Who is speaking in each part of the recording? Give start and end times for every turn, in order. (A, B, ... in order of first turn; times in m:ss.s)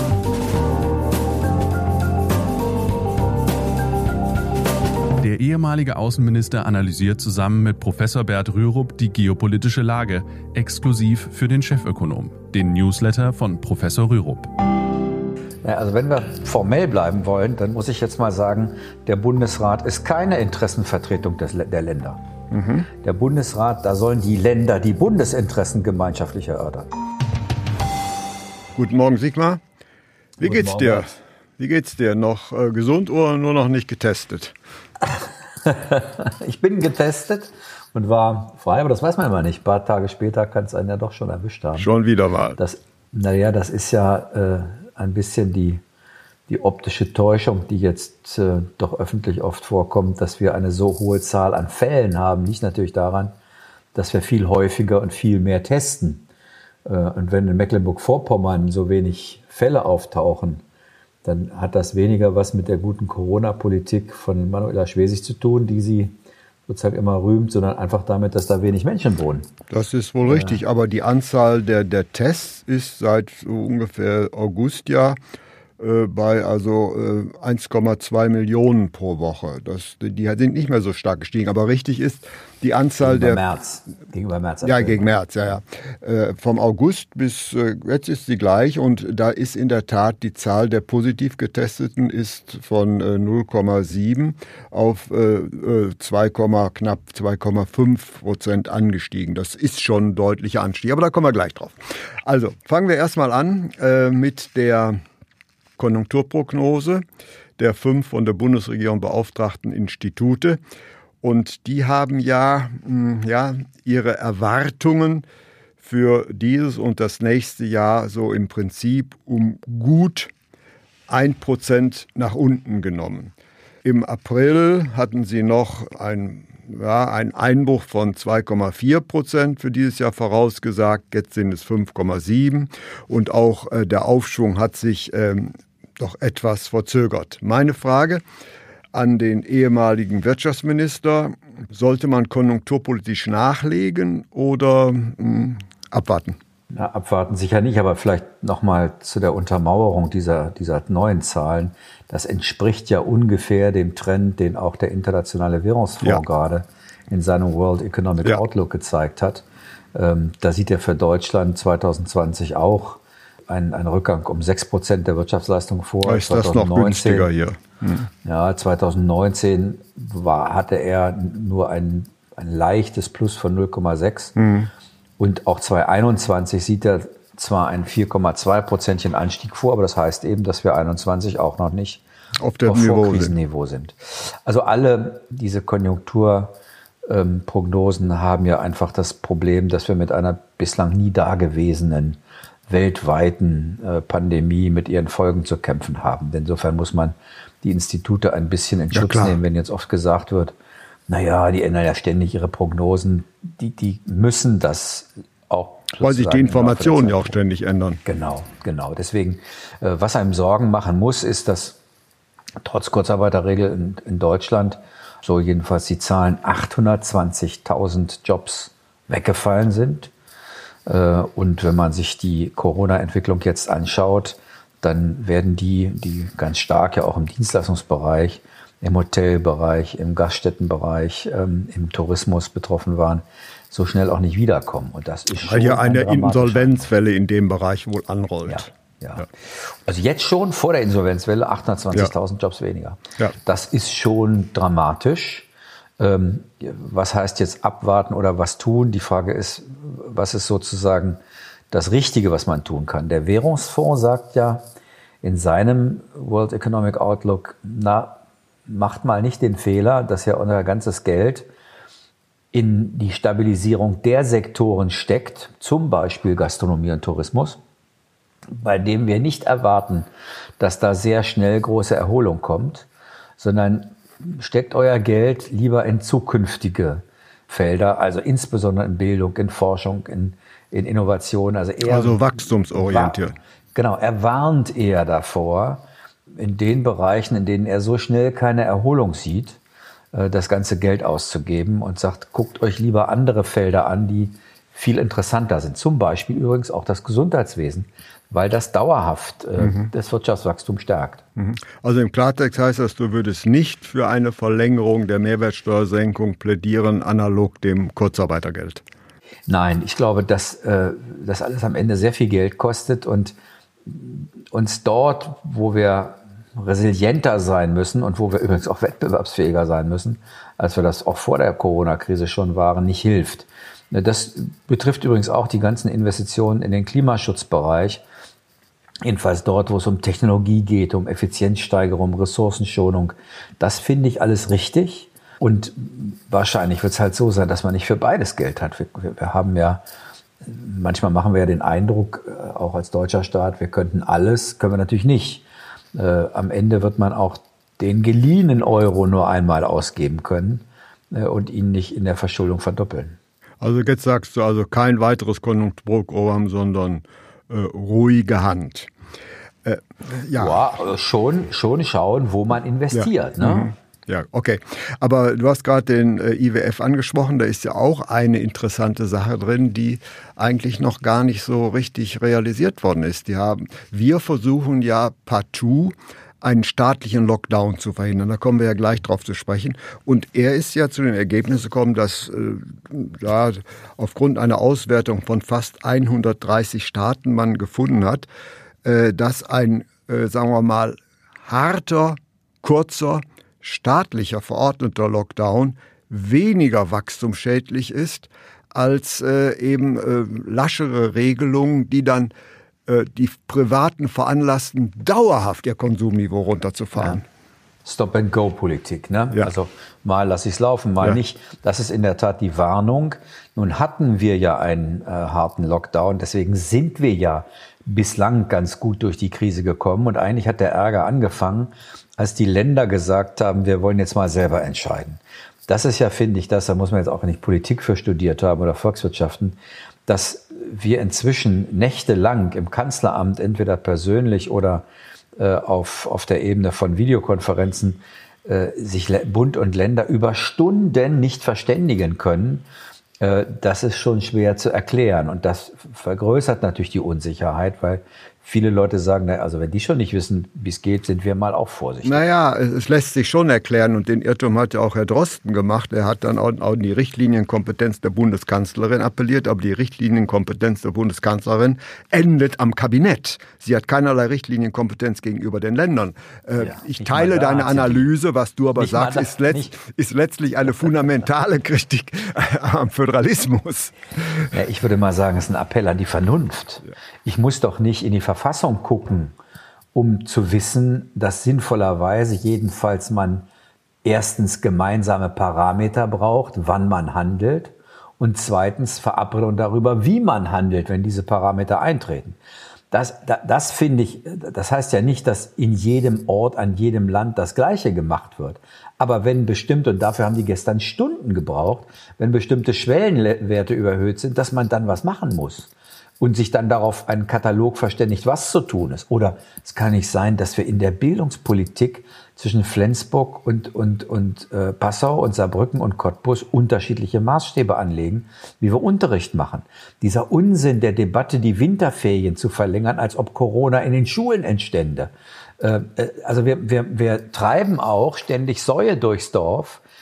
0:05.2-0:14.5 A
0:15.6-0:22.2 B
0:22.5-0:22.8 C
0:23.0-0:26.9 B
0:28.7-0:29.6 C
0:30.4-0:34.5 C
0:30.4-0:31.2 B
0:35.6-0:41.9 B
0:41.8-0:42.6 C
0:42.6-0:45.8 B
0:46.5-0:53.3 B
0:53.9-0:56.2 B
0:56.8-1:00.6 B
1:01.2-1:06.1 B
1:06.7-1:09.5 B
1:09.7-1:15.2 C
1:10.2-1:10.6 B
1:15.8-1:23.4 C
1:23.0-1:25.1 B
1:24.6-1:45.0 C
1:45.8-1:47.0 C
1:47.6-1:50.6 C
1:51.2-1:55.2 C
1:55.8-2:00.3 C
2:01.1-2:18.2 C
2:18.9-2:26.4 C
2:26.7-2:47.3 B
2:46.0-2:48.1 C
2:48.2-2:54.4 B
2:54.4-2:54.7 C
2:55.2-3:02.0 B
3:02.4-3:03.4 C
3:02.6-3:20.5 B
3:18.9-3:19.4 C
3:21.1-3:27.4 B
3:26.0-3:28.0 C
3:28.0-3:31.8 B
3:32.6-3:40.1 B
3:40.8-3:56.9 B
3:55.4-3:58.7 C
3:58.5-4:05.5 B
4:06.0-4:11.2 B
4:11.7-4:14.6 B
4:15.2-4:21.5 B
4:22.5-4:27.6 B
4:28.5-4:30.1 B
4:30.6-4:32.9 B
4:33.4-4:43.2 B
4:41.8-4:43.3 C
4:43.7-4:45.8 B
4:46.3-4:49.6 B
4:50.1-5:01.2 B
4:59.6-4:59.9 C
5:01.4-5:08.8 C
5:09.5-5:28.0 B
5:29.0-5:39.8 B
5:40.4-5:53.2 B
5:53.6-5:58.9 C
5:59.6-6:00.6 C
6:00.3-6:03.7 B
6:02.9-6:28.3 C
6:28.8-6:42.3 C
6:42.8-6:47.2 C
6:47.0-6:47.2 B
6:47.8-7:14.8 B
7:15.4-7:22.6 B
7:23.2-7:32.2 B
7:32.0-7:54.5 C
7:46.6-7:48.1 B
7:48.8-7:49.7 B
7:54.5-7:59.3 B
7:59.9-8:03.5 B
8:04.0-8:12.4 B
8:12.9-8:49.8 B